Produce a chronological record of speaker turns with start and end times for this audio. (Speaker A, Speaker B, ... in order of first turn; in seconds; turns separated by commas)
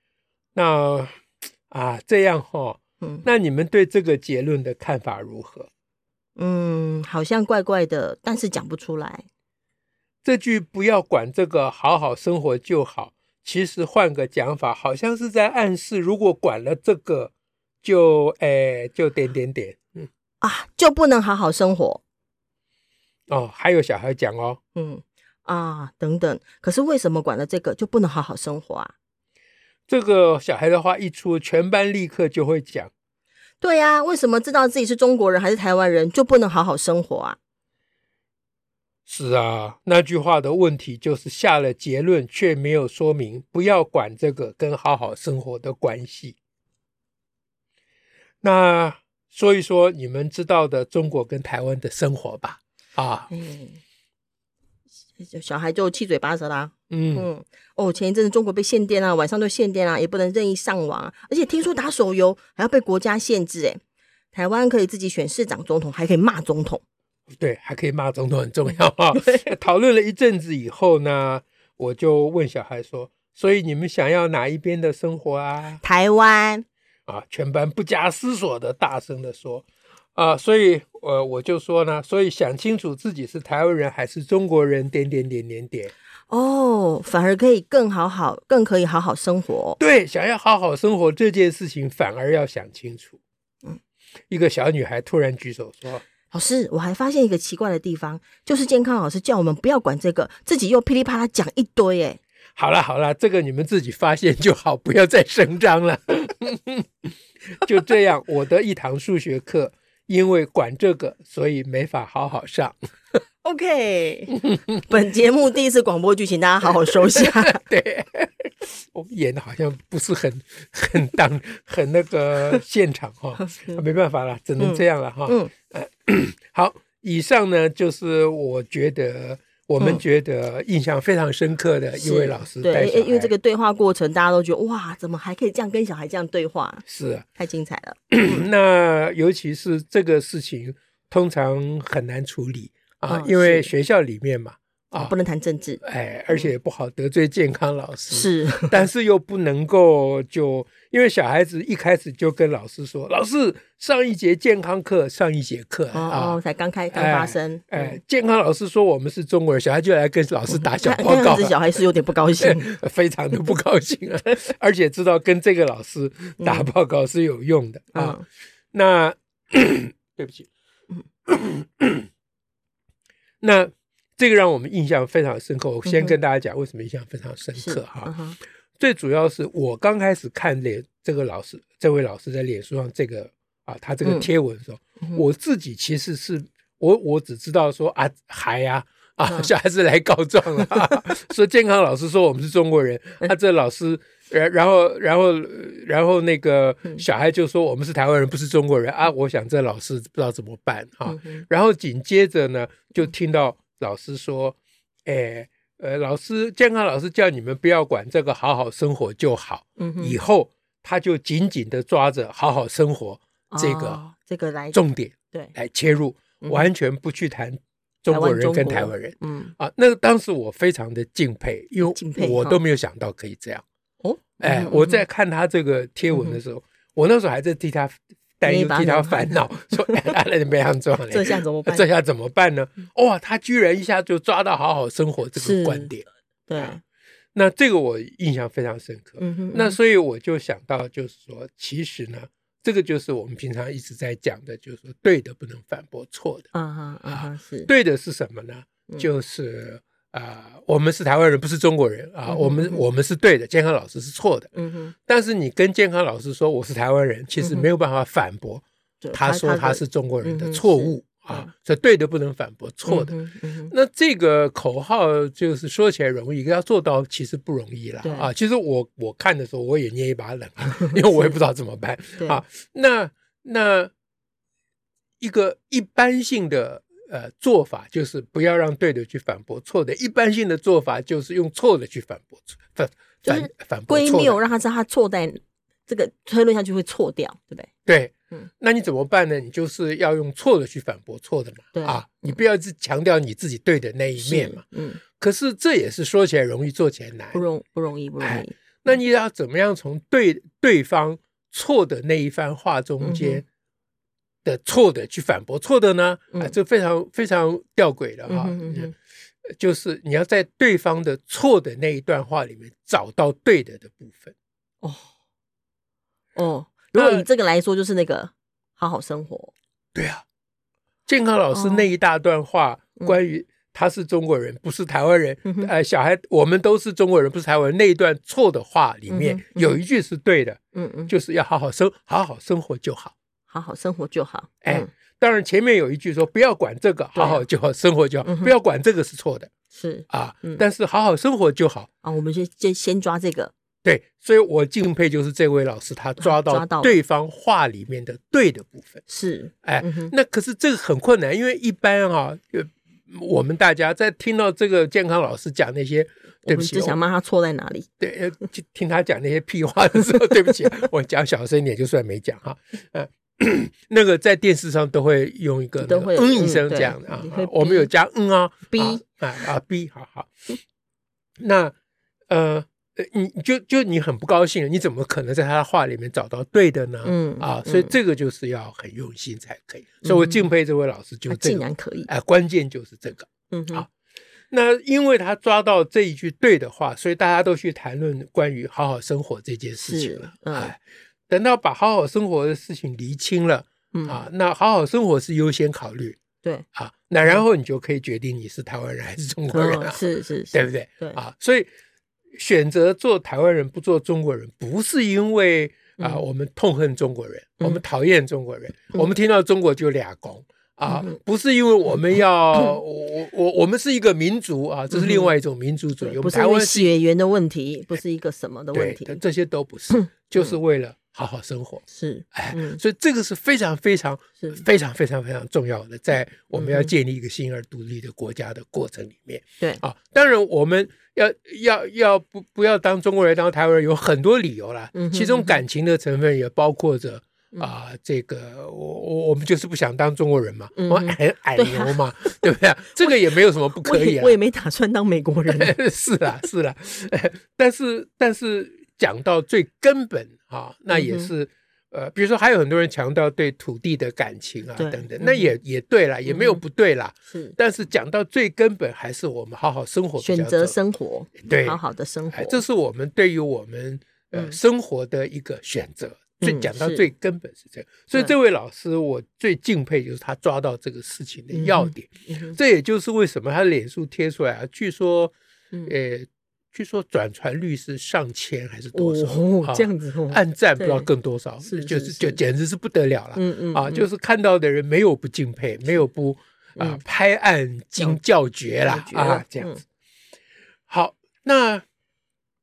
Speaker A: 0.6-5.7, Speaker B: 3.0-3.3, Speaker B: 6.4-9.3, Speaker A: 10.2-17.3, Speaker A: 17.8-20.1, Speaker B: 20.4-22.0, Speaker A: 23.3-24.6, Speaker B: 24.8-28.9, Speaker A: 29.9-32.9, Speaker B: 33.6-37.4, Speaker A: 39.1-46.4, Speaker A: 48.4-53.3, Speaker B: 53.3-53.8, Speaker B: 55.2-63.8, Speaker A: 56.9-57.3, Speaker B: 64.3-66.8, Speaker A: 67.3-75.8, Speaker B: 75.8-76.7, Speaker A: 77.1-85.9, Speaker B: 86.3-89.8, Speaker A: 89.8-93.2, Speaker A: 94.3-96.0, Speaker B: 96.3-102.2, Speaker A: 102.6-106.9, Speaker A: 107.6-112.8, Speaker B: 113.4-117.6, Speaker A: 117.2-133.3, Speaker B: 123.4-123.8, Speaker B: 124.6-125.5, Speaker B: 131.9-136.8, Speaker A: 136.9-137.3, Speaker B: 137.4-138.4, Speaker A: 138.1-145.1, Speaker B: 143.1-143.7, Speaker B: 145.0-145.8, Speaker A: 145.8-156.4, Speaker B: 148.1-148.9, Speaker B: 155.9-158.0, Speaker A: 156.9-161.8, Speaker B: 160.5-162.7, Speaker A: 162.4-168.2, Speaker B: 166.4-166.7, Speaker B: 167.9-168.2, Speaker A: 168.7-170.5, Speaker A: 171.3-172.1, Speaker A: 173.4-178.1, Speaker B: 175.8-176.2, Speaker B: 177.6-178.4, Speaker A: 178.8-214.1, Speaker B: 201.1-201.4, Speaker B: 209.8-210.2, Speaker B: 213.5-214.8, Speaker A: 214.7-223.7, Speaker B: 216.4-216.7, Speaker B: 218.1-219.6, Speaker B: 221.9-222.6, Speaker B: 224.0-225.0, Speaker A: 224.4-236.1, Speaker B: 226.1-226.4, Speaker B: 228.4-230.0, Speaker B: 231.1-231.8, Speaker B: 235.3-235.9, Speaker B: 236.5-236.8, Speaker A: 237.3-246.5, Speaker B: 239.2-239.8, Speaker B: 246.5-247.7, Speaker A: 247.1-254.5, Speaker B: 252.3-252.8, Speaker B: 254.6-254.9, Speaker A: 255.1-263.2, Speaker B: 257.4-257.7, Speaker B: 259.0-261.5, Speaker B: 262.9-263.7, Speaker A: 263.7-273.9, Speaker B: 268.0-268.3, Speaker B: 271.1-271.4, Speaker A: 275.2-284.4, Speaker B: 283.2-287.7, Speaker A: 287.9-294.6, Speaker B: 291.8-292.4, Speaker B: 294.2-295.0, Speaker A: 295.2-297.4, Speaker B: 297.3-298.6, Speaker A: 298.2-303.4, Speaker B: 303.0-303.4, Speaker A: 304.4-308.9, Speaker B: 308.3-308.9, Speaker A: 309.6-314.4, Speaker B: 314.8-315.1, Speaker B: 316.4-319.5, Speaker A: 316.9-317.2, Speaker A: 319.9-320.2, Speaker A: 321.1-333.1, Speaker B: 321.5-321.9, Speaker B: 325.4-325.7, Speaker B: 329.1-329.8, Speaker B: 330.7-331.1, Speaker B: 333.5-334.9, Speaker A: 334.6-339.5, Speaker B: 337.1-337.4, Speaker B: 338.2-338.5, Speaker B: 339.7-340.6, Speaker A: 340.1-341.9, Speaker B: 342.0-343.5, Speaker A: 343.8-349.0, Speaker B: 346.2-347.0, Speaker B: 349.1-350.1, Speaker A: 349.6-357.0, Speaker B: 356.5-357.9, Speaker A: 358.0-370.3, Speaker B: 365.8-367.9, Speaker B: 368.7-369.0, Speaker A: 371.4-371.7, Speaker A: 372.3-383.9, Speaker B: 377.0-378.0, Speaker B: 380.0-380.5, Speaker B: 381.3-382.1, Speaker B: 383.5-383.9, Speaker A: 384.5-396.2, Speaker B: 389.8-390.7, Speaker B: 393.9-394.2, Speaker A: 396.8-401.7, Speaker B: 399.5-401.2, Speaker A: 402.3-416.9, Speaker B: 410.9-411.2, Speaker B: 414.9-415.3, Speaker B: 416.0-419.2, Speaker A: 418.7-444.4, Speaker B: 419.9-420.6, Speaker B: 421.9-422.8, Speaker B: 426.5-426.9, Speaker B: 434.9-435.6, Speaker B: 440.8-442.4, Speaker B: 443.0-445.8, Speaker A: 445.5-460.8, Speaker B: 450.9-451.3, Speaker B: 454.8-455.5, Speaker B: 456.3-456.6, Speaker B: 460.2-462.6, Speaker A: 461.4-461.8, Speaker A: 462.3-475.3, Speaker B: 466.4-467.1, Speaker B: 471.5-472.6, Speaker A: 475.9-489.8, Speaker B: 478.9-481.1, Speaker B: 481.6-482.4, Speaker B: 483.4-484.1, Speaker B: 488.9-489.8, Speaker A: 490.9-491.8